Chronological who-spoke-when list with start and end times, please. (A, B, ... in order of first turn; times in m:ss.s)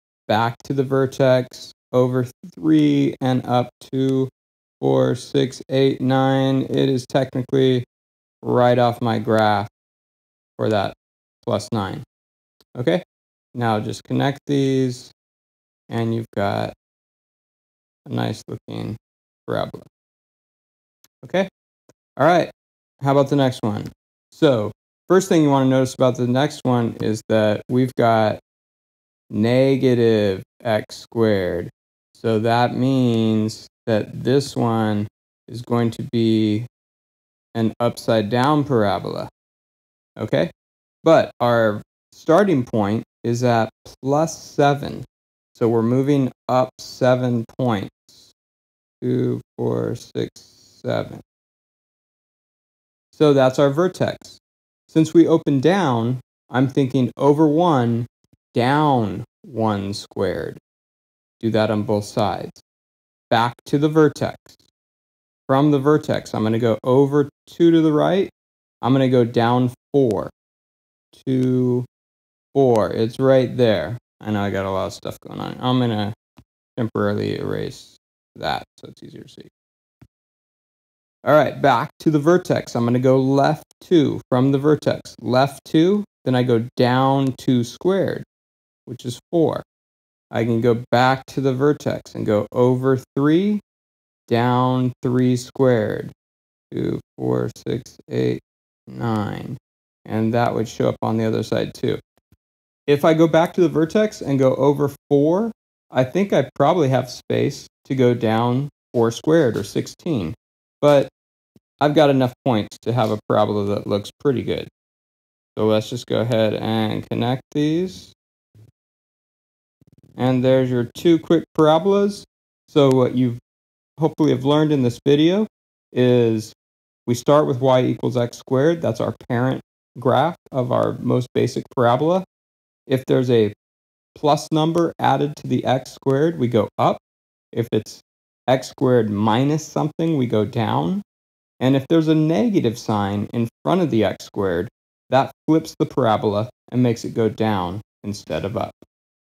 0:00.3-0:07.8 A
0:08.4-0:09.7 A
0:10.6-0:12.0 A
0:12.8-0:13.0 A
0:13.5-0:15.1 A
0:15.9-0:16.7 A
0:18.0-0:19.9 A
0:21.2-0:21.5 A
0:22.2-0:28.4 A
0:29.3-0:36.7 A
0:37.5-0:39.3 A
0:40.2-0:40.5 A
0:41.0-0:48.3 A
0:49.0-0:51.2 A
0:53.1-1:00.6 A
1:01.4-1:02.6 A
1:03.3-1:04.6 A
1:05.5-1:10.3 A
1:11.1-1:11.9 A
1:12.5-1:16.2 A
1:16.8-1:19.5 A
1:21.2-1:28.2 A
1:28.8-1:29.6 A
1:30.3-1:33.6 A
1:34.3-1:36.1 A
1:36.7-1:42.0 A
1:42.9-1:51.1 A
1:51.8-1:54.7 A
1:55.6-1:58.1 A
2:00.2-2:03.4 A
2:04.0-2:12.2 A
2:12.9-2:13.5 A
2:14.1-2:21.0 A
2:21.6-2:28.8 A